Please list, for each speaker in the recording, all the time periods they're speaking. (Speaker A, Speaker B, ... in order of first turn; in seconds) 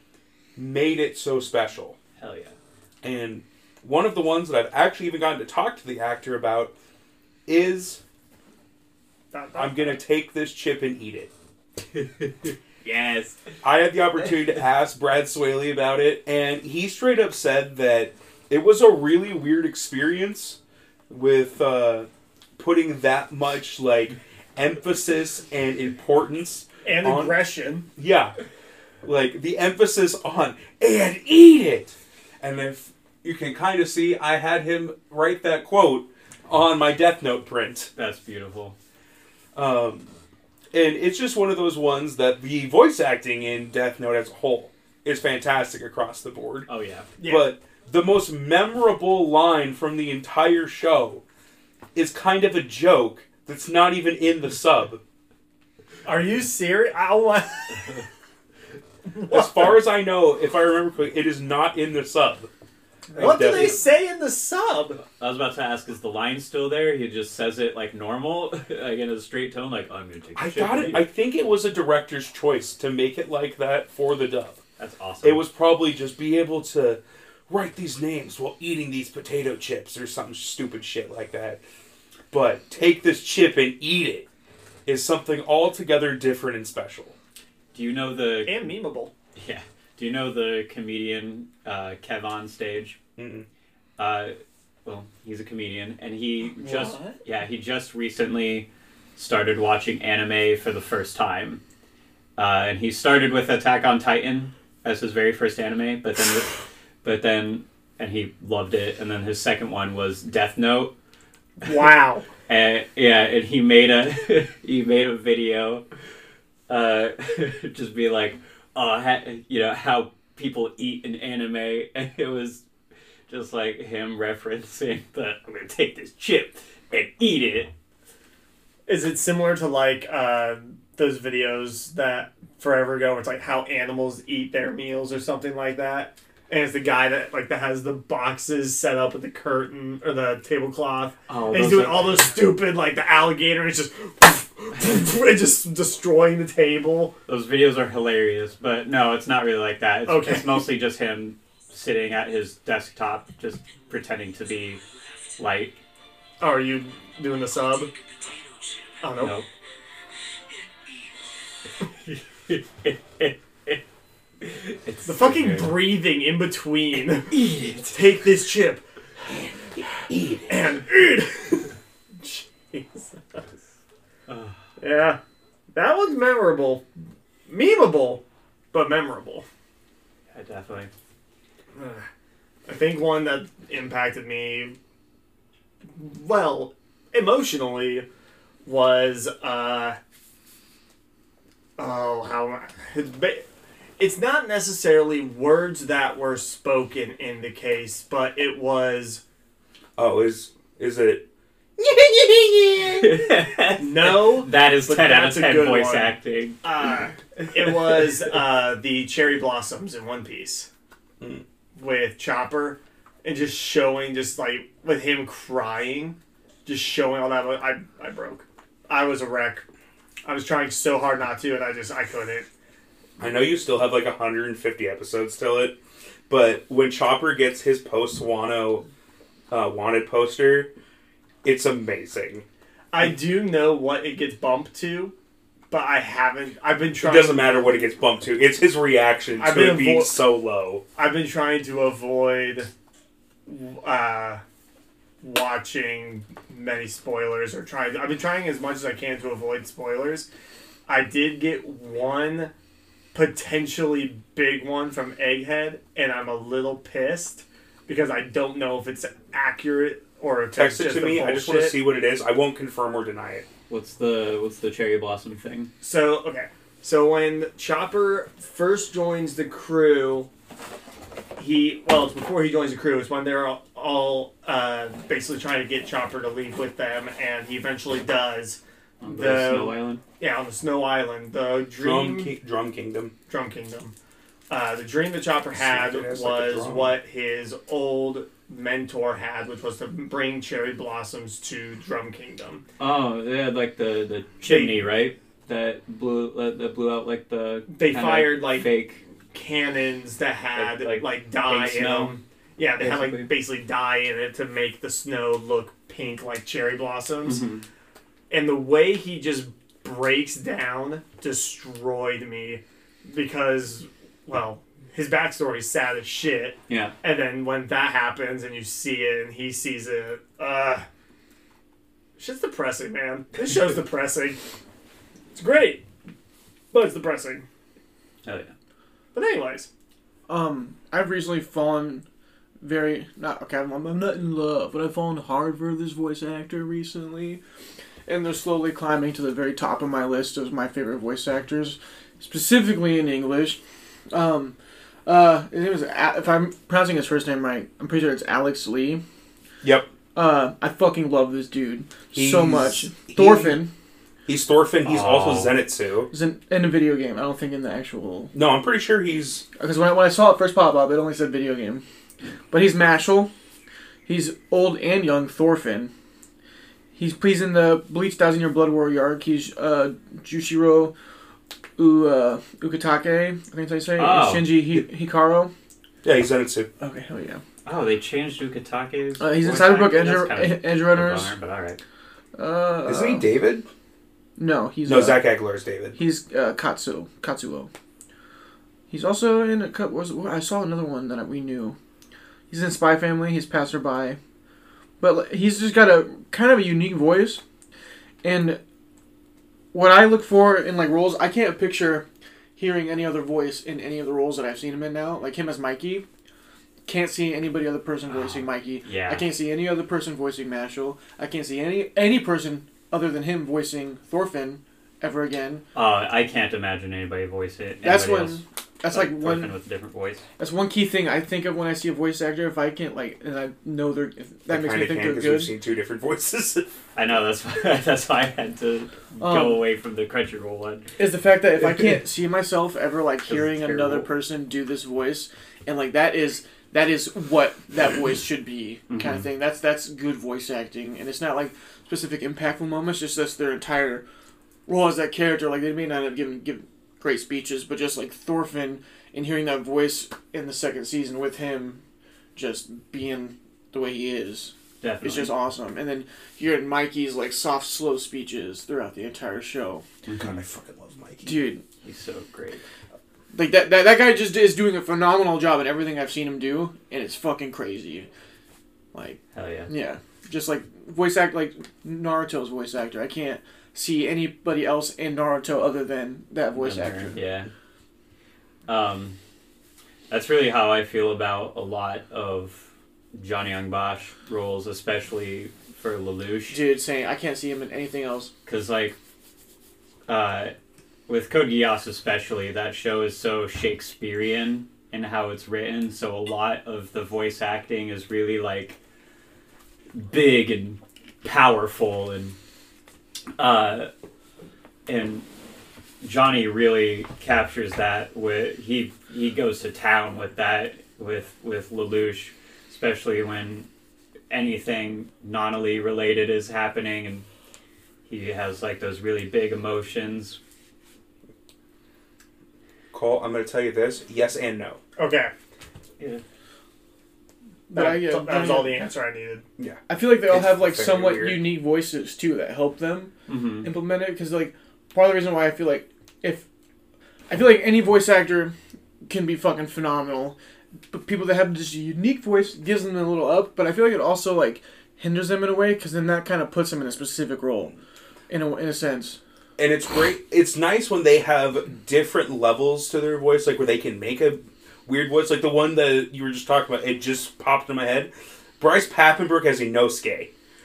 Speaker A: 0.6-2.0, 3.0-6.7, 7.5-8.0, 9.6-11.3, 13.6-20.6, 21.1-27.4, 28.0-28.4, 29.0-37.9, 39.5-40.1, 40.7-46.7, 47.2-51.2, 52.0-55.0, 59.3-62.5, 63.1-63.8, 70.4-74.6, 75.2-81.6, 82.3-84.3, 84.9-87.2, 93.2-93.5, 169.3-170.6, 200.0-201.2, 223.2-225.8, 226.3-228.8, 229.5-230.7, 231.4-232.4, 237.0-240.8, 260.6-263.5, 281.8-283.1, 285.5-287.0, 349.6-349.9, 352.1-353.6, 354.3-356.1, 358.3-359.5, 376.0-376.7, 382.9-383.7, 384.9-386.0, 424.5-426.7, 460.2-461.4, 522.9-524.8, 529.6-531.5, 549.6-560.3
Speaker B: 2.2-2.5, 12.8-13.4, 38.0-38.8, 46.7-47.1, 63.1-63.7, 65.0-71.1, 74.8-75.5, 87.7-88.7, 89.3-93.0, 94.0-101.6, 102.4-110.9, 112.5-115.8, 116.7-122.6, 123.3-127.7, 141.3-142.4, 147.3-154.8, 155.4-155.8, 159.2-159.5, 162.1-163.8, 164.4-165.8, 167.3-168.1, 174.3-174.6, 180.3-180.9, 202.9-206.6, 263.7-265.7, 279.0-280.0, 292.8-299.0, 300.6-302.1, 302.8-303.3, 307.2-307.6, 316.7-316.9, 328.2-328.5, 354.9-355.6, 373.9-374.7, 377.6-381.8, 408.1-409.3, 415.7-420.2, 426.9-430.9, 433.3-434.1, 438.9-439.3, 454.8-455.4, 460.1-460.4, 461.8-462.6, 469.3-469.7, 476.6-477.5, 478.7-479.2, 480.1-486.6, 488.5-489.0, 490.1-490.6, 491.1-498.8, 499.9-502.4, 503.4-503.9, 504.9-505.3, 506.0-513.7, 514.3-517.3, 518.1-520.4, 533.3-533.7
Speaker C: 9.3-10.0, 26.9-27.9, 47.2-47.5, 56.0-57.9, 59.2-59.8, 63.1-65.0, 88.5-89.1, 96.6-97.2, 111.6-112.3, 128.9-147.2, 150.1-150.7, 156.4-157.9, 159.0-159.4, 165.1-168.8, 170.5-171.7, 172.2-173.5, 174.8-175.2, 175.7-176.9, 177.5-179.5, 181.8-182.1, 182.7-184.8, 185.9-188.1, 188.7-190.0, 191.8-193.4, 194.0-199.2, 203.8-210.7, 211.8-219.7, 220.2-222.5, 232.9-235.1, 235.7-237.6, 239.4-240.2, 241.0-242.7, 243.5-244.4, 245.2-250.3, 250.9-252.5, 253.1-261.8, 265.8-270.3, 271.4-282.3, 283.3-283.9, 284.5-292.6, 294.4-294.9, 297.7-298.7, 299.3-307.4, 308.3-320.9, 322.2-324.4, 325.4-325.8, 326.7-327.4, 329.1-329.7, 525.0-525.3, 527.7-529.5
Speaker D: 330.3-332.1, 332.6-337.4, 338.1-343.6, 344.1-344.6, 345.1-349.0, 350.1-353.7, 356.1-358.3, 359.6-361.8, 362.5-363.3, 364.1-365.9, 367.0-370.9, 371.8-375.5, 376.8-377.4, 379.2-381.4, 382.4-383.3, 384.4-385.3, 386.0-387.7, 388.9-391.8, 392.5-394.2, 395.0-397.4, 398.2-398.6, 399.7-402.1, 402.6-406.1, 406.9-415.6, 417.8-419.6, 420.4-425.5, 429.2-429.6, 431.0-444.0, 444.7-451.8, 452.4-459.8, 461.2-461.6, 463.3-468.1, 468.9-477.2, 486.5-488.3, 527.7-528.9, 529.9-536.5, 537.3-540.4, 540.9-547.8, 548.3-549.2